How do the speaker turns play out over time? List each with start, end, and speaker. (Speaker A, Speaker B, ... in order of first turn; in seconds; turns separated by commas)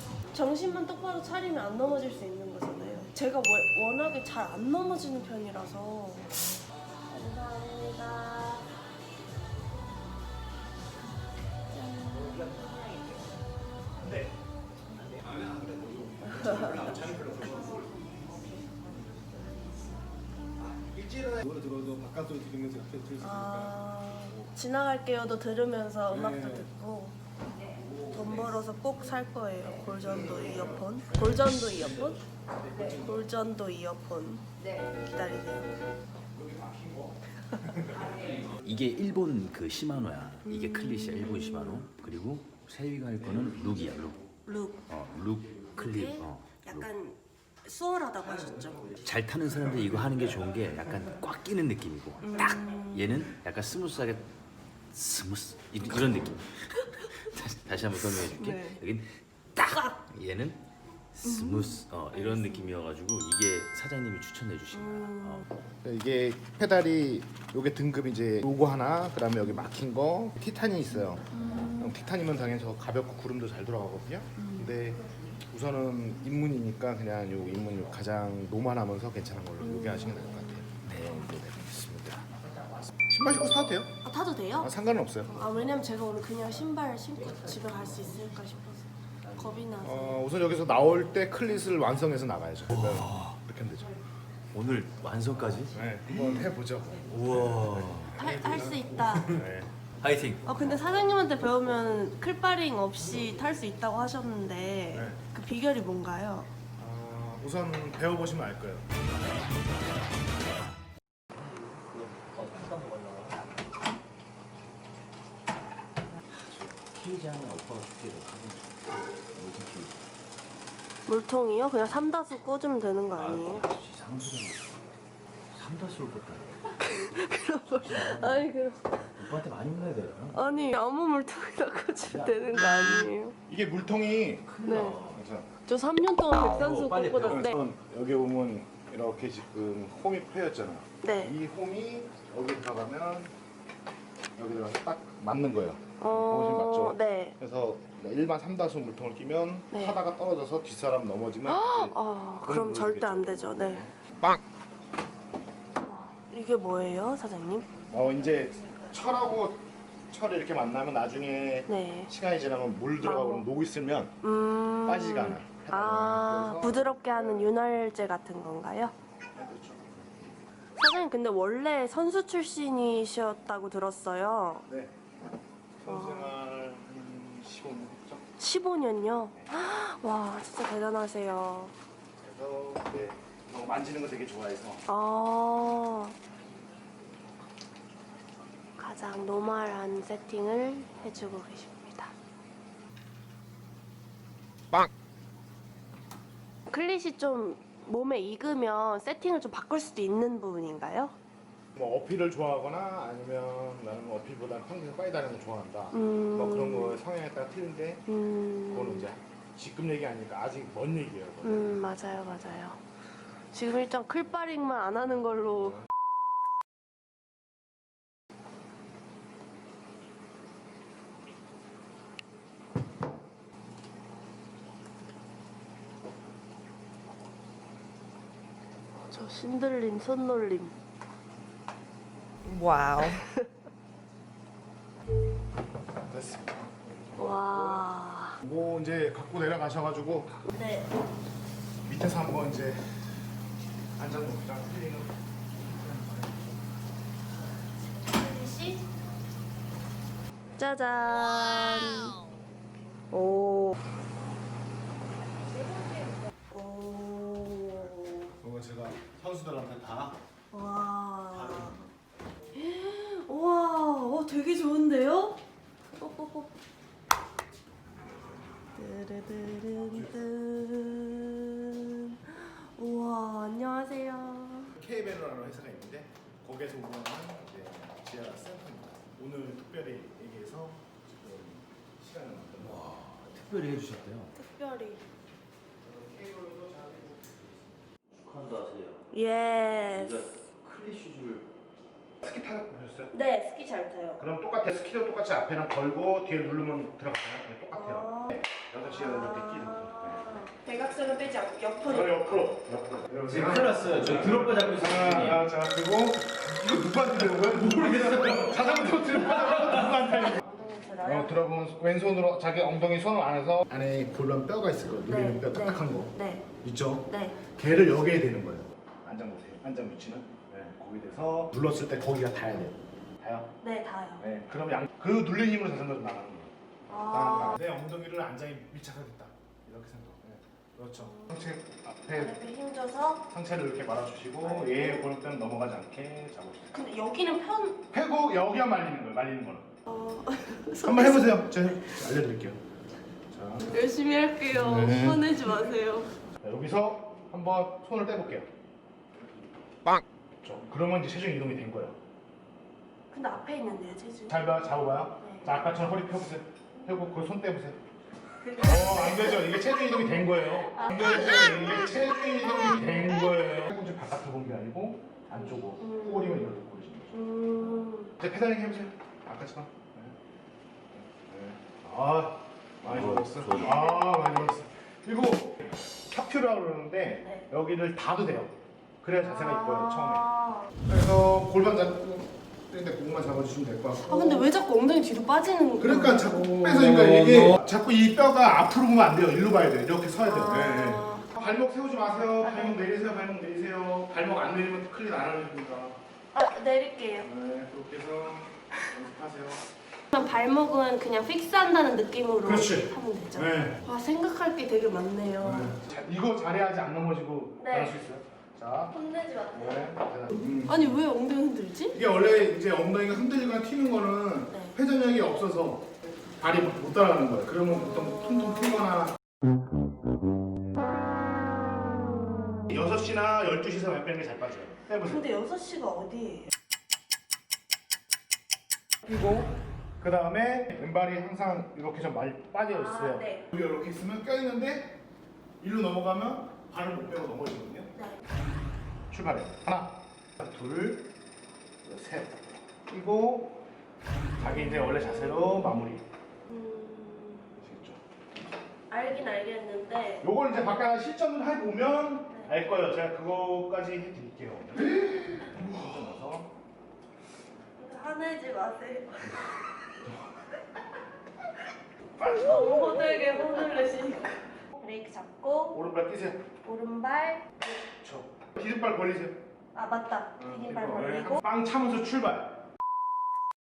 Speaker A: 0.3-6.3, Speaker A: 7.1-8.7, Speaker A: 11.7-13.0, Speaker B: 14.0-14.3, Speaker B: 15.0-19.3, Speaker A: 16.4-16.8, Speaker B: 20.6-24.5, Speaker A: 23.2-27.2, Speaker B: 26.1-26.7, Speaker B: 27.7-28.5, Speaker A: 28.1-32.2, Speaker B: 29.9-31.4, Speaker B: 32.6-33.2, Speaker A: 32.9-35.7, Speaker B: 36.3-38.4, Speaker C: 38.6-44.2, Speaker A: 40.5-41.8, Speaker A: 44.5-44.8, Speaker C: 44.9-46.9, Speaker A: 45.8-48.9, Speaker C: 49.0-54.3, Speaker A: 52.2-53.3, Speaker C: 54.9-56.5, Speaker C: 57.1-59.1, Speaker A: 58.2-58.8, Speaker A: 59.6-60.0, Speaker C: 60.1-60.6, Speaker C: 61.1-65.5, Speaker A: 61.2-62.7, Speaker A: 64.7-65.5, Speaker B: 65.8-82.3, Speaker A: 71.3-72.0, Speaker A: 74.4-74.7, Speaker A: 79.6-80.3, Speaker C: 80.8-81.4, Speaker B: 83.0-83.9, Speaker A: 84.0-84.7, Speaker B: 84.6-85.4, Speaker A: 85.3-90.2, Speaker B: 89.8-93.9, Speaker C: 92.8-93.3, Speaker C: 94.5-96.5, Speaker B: 95.7-99.7, Speaker C: 97.1-98.2, Speaker A: 98.2-99.4, Speaker C: 100.0-100.6, Speaker A: 100.5-106.5, Speaker B: 104.9-105.2, Speaker B: 106.8-108.8, Speaker C: 111.9-113.4, Speaker C: 116.3-120.0, Speaker A: 121.1-123.7, Speaker C: 123.2-124.8, Speaker C: 125.5-126.8, Speaker A: 126.7-129.1, Speaker C: 127.7-128.5, Speaker C: 129.2-130.4, Speaker A: 130.3-133.3, Speaker C: 132.0-132.5, Speaker B: 133.5-134.5, Speaker C: 134.5-135.2, Speaker A: 134.6-135.0, Speaker B: 135.1-135.5, Speaker A: 135.7-137.6, Speaker C: 136.5-137.5, Speaker B: 137.3-143.3, Speaker A: 141.0-141.3, Speaker B: 144.4-154.4, Speaker A: 146.0-147.4, Speaker A: 149.7-150.0, Speaker A: 151.5-153.9, Speaker A: 155.8-157.7, Speaker B: 157.9-164.2, Speaker A: 161.7-162.1, Speaker A: 163.0-163.5, Speaker A: 164.2-168.9, Speaker B: 164.8-167.5, Speaker B: 169.3-169.9, Speaker A: 170.8-174.7, Speaker B: 174.7-175.0, Speaker B: 175.8-178.2, Speaker A: 175.8-176.3, Speaker A: 178.4-181.8, Speaker B: 182.2-184.8, Speaker A: 184.9-186.2, Speaker A: 188.8-192.1, Speaker A: 196.7-201.1, Speaker B: 201.8-208.1, Speaker A: 205.9-207.0, Speaker A: 208.1-209.1, Speaker B: 208.7-211.8, Speaker A: 211.4-212.8, Speaker A: 213.5-215.8, Speaker A: 229.1-230.8, Speaker A: 232.4-233.5, Speaker B: 236.1-237.9, Speaker A: 237.2-238.4, Speaker B: 238.4-240.4, Speaker A: 240.4-240.9, Speaker B: 241.9-243.1, Speaker B: 244.0-246.5, Speaker A: 247.8-248.9, Speaker A: 250.6-252.2, Speaker A: 253.1-253.8, Speaker A: 255.7-258.3, Speaker B: 258.4-260.2, Speaker A: 260.5-261.9, Speaker B: 261.4-261.7, Speaker A: 262.6-265.4, Speaker A: 266.0-266.5, Speaker A: 268.8-274.8, Speaker B: 269.8-270.1, Speaker B: 274.8-282.9, Speaker C: 282.6-284.3, Speaker A: 284.3-285.0, Speaker B: 285.8-287.5, Speaker C: 288.1-289.1, Speaker A: 289.1-290.2, Speaker C: 289.9-291.5, Speaker B: 292.2-293.1, Speaker A: 293.1-294.2, Speaker B: 294.2-300.3, Speaker A: 297.7-302.2, Speaker B: 301.9-310.4, Speaker C: 303.3-305.4, Speaker C: 307.5-308.8, Speaker A: 310.0-311.4, Speaker B: 311.0-316.1, Speaker A: 315.1-315.5, Speaker A: 316.1-316.4, Speaker B: 316.6-323.5, Speaker A: 317.1-317.4, Speaker A: 323.6-324.2, Speaker B: 324.2-326.5, Speaker A: 326.9-327.6, Speaker B: 327.1-332.4, Speaker A: 331.0-331.3, Speaker A: 332.1-333.2, Speaker B: 333.3-336.7, Speaker A: 334.4-335.1, Speaker A: 336.7-337.8, Speaker B: 337.9-339.7, Speaker A: 339.9-341.8, Speaker B: 340.8-342.6, Speaker B: 343.3-343.7, Speaker A: 343.7-346.1, Speaker B: 344.5-345.2, Speaker B: 346.4-348.5, Speaker B: 350.4-351.9, Speaker A: 353.1-354.4, Speaker B: 354.3-357.8, Speaker A: 355.2-355.6, Speaker A: 358.4-363.3, Speaker B: 358.6-367.1, Speaker A: 365.8-366.4, Speaker A: 367.1-368.1, Speaker B: 368.2-370.1, Speaker B: 370.9-380.3, Speaker C: 372.8-373.8, Speaker A: 373.7-374.0, Speaker A: 379.2-380.7, Speaker B: 380.9-384.5, Speaker A: 384.1-386.5, Speaker B: 385.8-396.0, Speaker A: 390.2-391.3, Speaker A: 392.4-392.8, Speaker A: 396.3-397.3, Speaker B: 397.2-399.6, Speaker A: 400.1-405.8, Speaker B: 402.4-403.8, Speaker B: 405.4-408.9, Speaker A: 407.6-408.0, Speaker A: 408.9-409.9, Speaker B: 409.5-411.0, Speaker A: 410.7-412.0, Speaker B: 411.9-419.2, Speaker B: 422.7-425.2, Speaker A: 425.0-426.5, Speaker B: 429.0-435.0, Speaker A: 432.7-433.5, Speaker B: 435.6-437.9, Speaker A: 437.9-438.3, Speaker B: 439.1-441.1, Speaker B: 441.8-442.4, Speaker B: 442.9-443.6, Speaker B: 444.4-446.0, Speaker A: 446.5-447.6, Speaker B: 447.6-448.0, Speaker A: 448.9-450.3, Speaker B: 450.2-456.5, Speaker A: 457.8-460.1, Speaker B: 462.2-463.0, Speaker A: 462.4-465.8, Speaker B: 465.7-466.4, Speaker A: 466.6-467.5, Speaker B: 467.9-469.4, Speaker A: 469.7-471.4, Speaker B: 470.4-472.6